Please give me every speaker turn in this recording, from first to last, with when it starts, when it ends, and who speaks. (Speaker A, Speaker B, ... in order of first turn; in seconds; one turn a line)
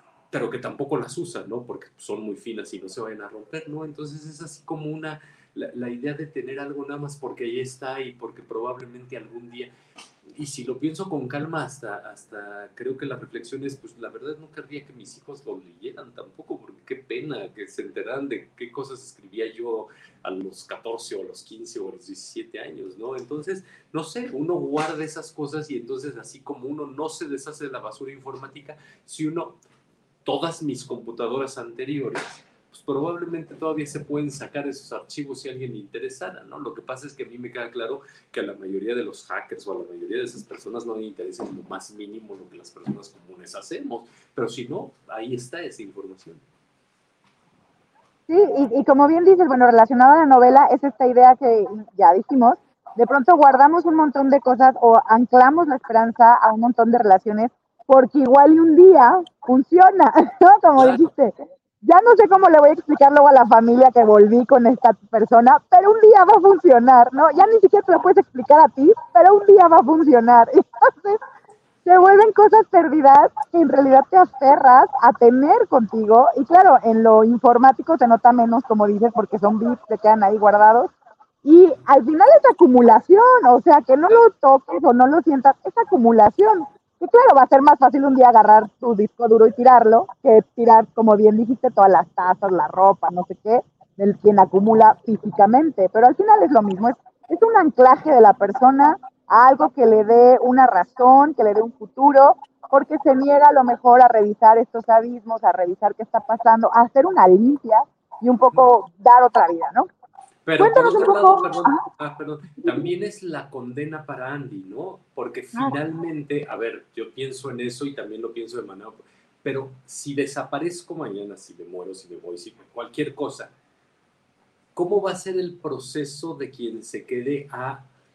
Speaker A: 0.3-9.7
Speaker A: 10.3-29.6
Speaker A: 30.2-46.4
Speaker B: 48.3-71.2
Speaker A: 60.8-61.0
Speaker B: 71.8-80.9
Speaker B: 81.4-109.9
Speaker A: 110.4-123.5
Speaker B: 110.6-111.8
Speaker A: 124.7-127.9